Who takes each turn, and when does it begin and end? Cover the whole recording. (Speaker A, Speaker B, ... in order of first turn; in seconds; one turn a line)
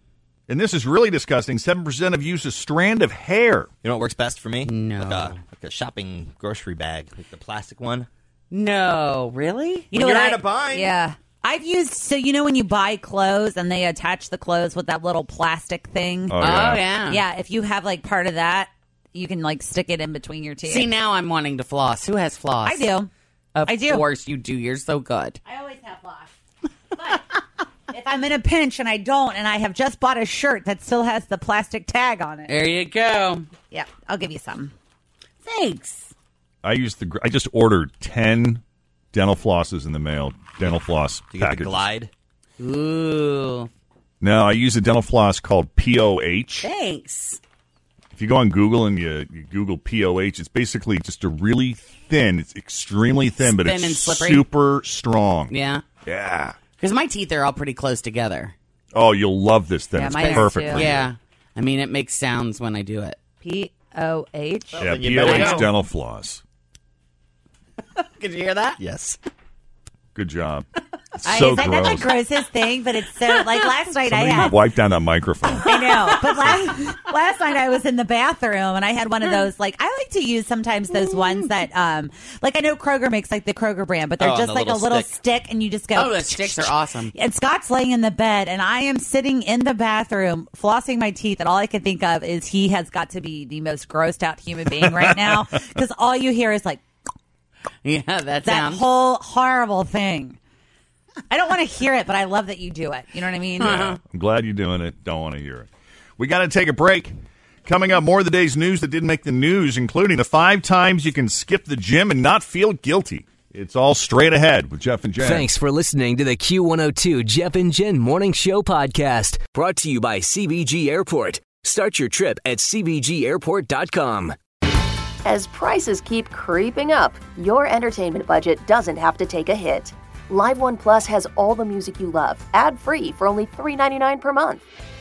Speaker A: 0.5-3.7
Speaker B: 3.8-8.1
Speaker C: 4.7-5.4
Speaker C: 8.5-9.9
Speaker D: 9.9-16.4
Speaker B: 9.9-10.9
Speaker A: 16.3-16.9
Speaker C: 16.4-17.2
Speaker D: 17.1-20.9
Speaker C: 20.6-22.8
Speaker D: 22.6-23.1
Speaker C: 23.5-25.4
Speaker D: 23.6-24.0
Speaker D: 25.4-26.3
Speaker D: 26.9-27.3
Speaker D: 27.9-32.5
Speaker C: 32.5-33.5
Speaker D: 33.7-34.7
Speaker C: 35.4-36.1
Speaker A: 36.6-38.6
Speaker A: 39.1-41.9
Speaker B: 41.3-42.1
Speaker C: 42.6-43.7
Speaker A: 44.2-46.7
Speaker C: 46.6-47.4
Speaker A: 48.1-55.5
Speaker C: 53.4-54.5
Speaker C: 55.5-55.8
Speaker A: 56.0-56.5
Speaker C: 56.8-58.5
Speaker A: 58.9-61.1
Speaker D: 60.0-60.9
Speaker C: 60.1-63.2
Speaker D: 63.4-65.6
Speaker B: 64.7-65.7
Speaker A: 64.8-66.4
Speaker C: 68.0-68.8
Speaker B: 68.8-69.2
Speaker A: 70.1-70.7
Speaker A: 71.2-72.0
Speaker D: 71.2-74.7
Speaker A: 74.1-75.7
Speaker D: 75.6-96.8
Speaker B: 84.2-85.1
Speaker C: 85.9-87.1
Speaker C: 97.8-98.8
Speaker D: 98.4-100.4
Speaker D: 101.3-103.8
Speaker C: 103.6-104.0
Speaker A: 103.6-107.1
Speaker A: 107.7-115.5
Speaker E: 115.2-124.3
Speaker F: 125.2-134.6